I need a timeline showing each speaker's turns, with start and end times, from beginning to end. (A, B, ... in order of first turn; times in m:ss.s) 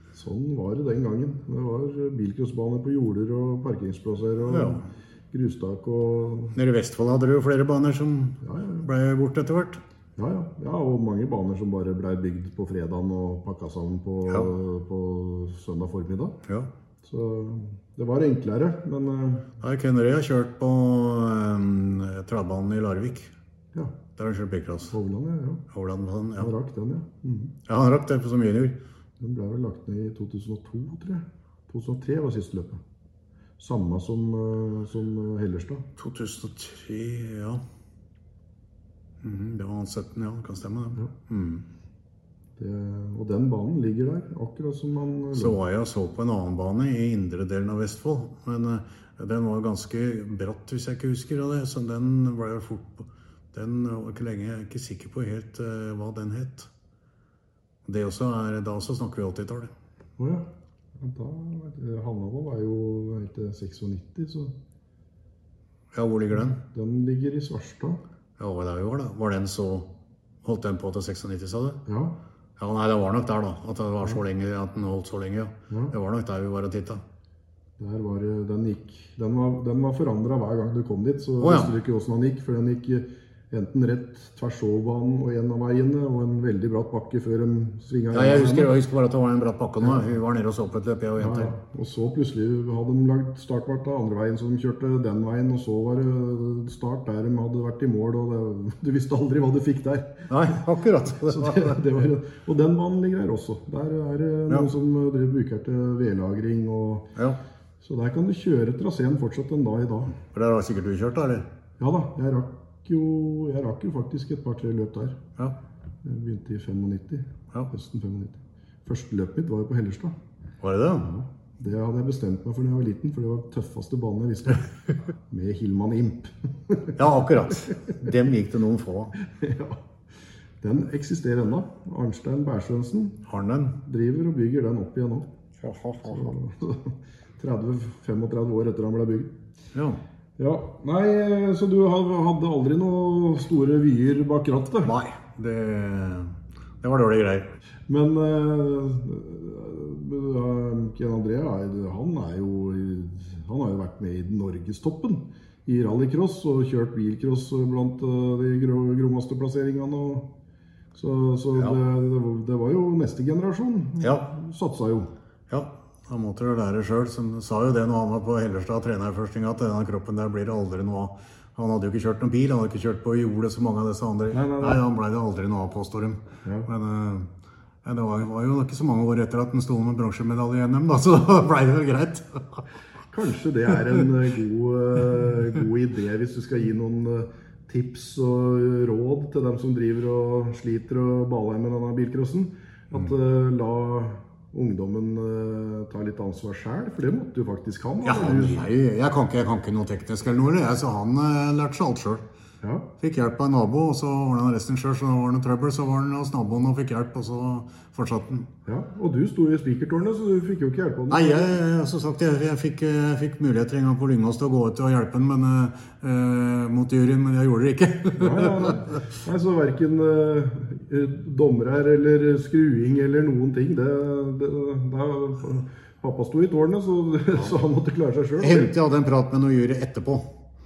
0:00.1-0:06.6 A
0:04.4-0:04.9 B
0:06.6-0:09.8 B
0:08.4-0:08.9 A
0:10.2-0:16.4 A
0:17.0-0:19.5 A
0:19.6-0:23.3 B
0:24.2-0:24.9 B
0:24.9-0:25.6 A
0:25.7-0:26.5 B
0:26.4-0:27.5 A
0:27.7-0:28.8 B
0:29.2-0:32.8 A
0:33.6-0:35.9 A
0:36.0-0:37.6 B
0:39.2-0:41.7 B
0:42.6-0:45.6 A
0:45.3-0:56.7 B
0:57.8-0:59.7 B
1:00.2-1:00.5 A
1:01.0-1:04.5 A
1:05.9-1:06.6 B
1:06.6-1:08.0 A
1:08.4-1:09.9 B
1:10.4-1:11.8 B
1:11.9-1:12.1 A
1:12.6-1:17.0 B
1:17.8-1:28.7 A
1:21.4-1:21.7 B
1:28.1-1:31.5 B
1:31.2-1:40.6 A
1:40.3-1:41.8 B
1:41.1-1:47.1 A
1:47.8-1:50.2 A
1:50.3-1:51.5 B
1:51.8-1:55.2 A
1:56.0-2:00.2 A
2:00.6-2:01.1 B
2:01.0-2:04.7 A
2:05.3-2:07.0 A
2:07.0-2:09.1 B
2:09.2-2:09.8 A
2:10.6-2:13.2 A
2:13.3-2:13.8 B
2:13.8-2:15.3 A
2:15.6-2:16.4 B
2:16.1-2:19.4 A
2:19.7-2:20.0 B
2:20.4-2:24.9 A
2:24.8-2:27.5 B
2:27.9-2:40.3 A
2:41.0-2:45.1 A
2:44.0-2:44.3 B
2:45.5-2:57.3 B
2:54.3-2:54.8 A
2:57.8-3:02.6 B
3:03.1-3:18.6 A
3:18.0-3:22.2 B
3:22.6-3:22.9 A
3:23.0-3:28.5 B
3:28.7-3:31.6 A
3:31.1-3:38.8 B
3:38.2-3:48.7 A
3:48.4-3:50.3 B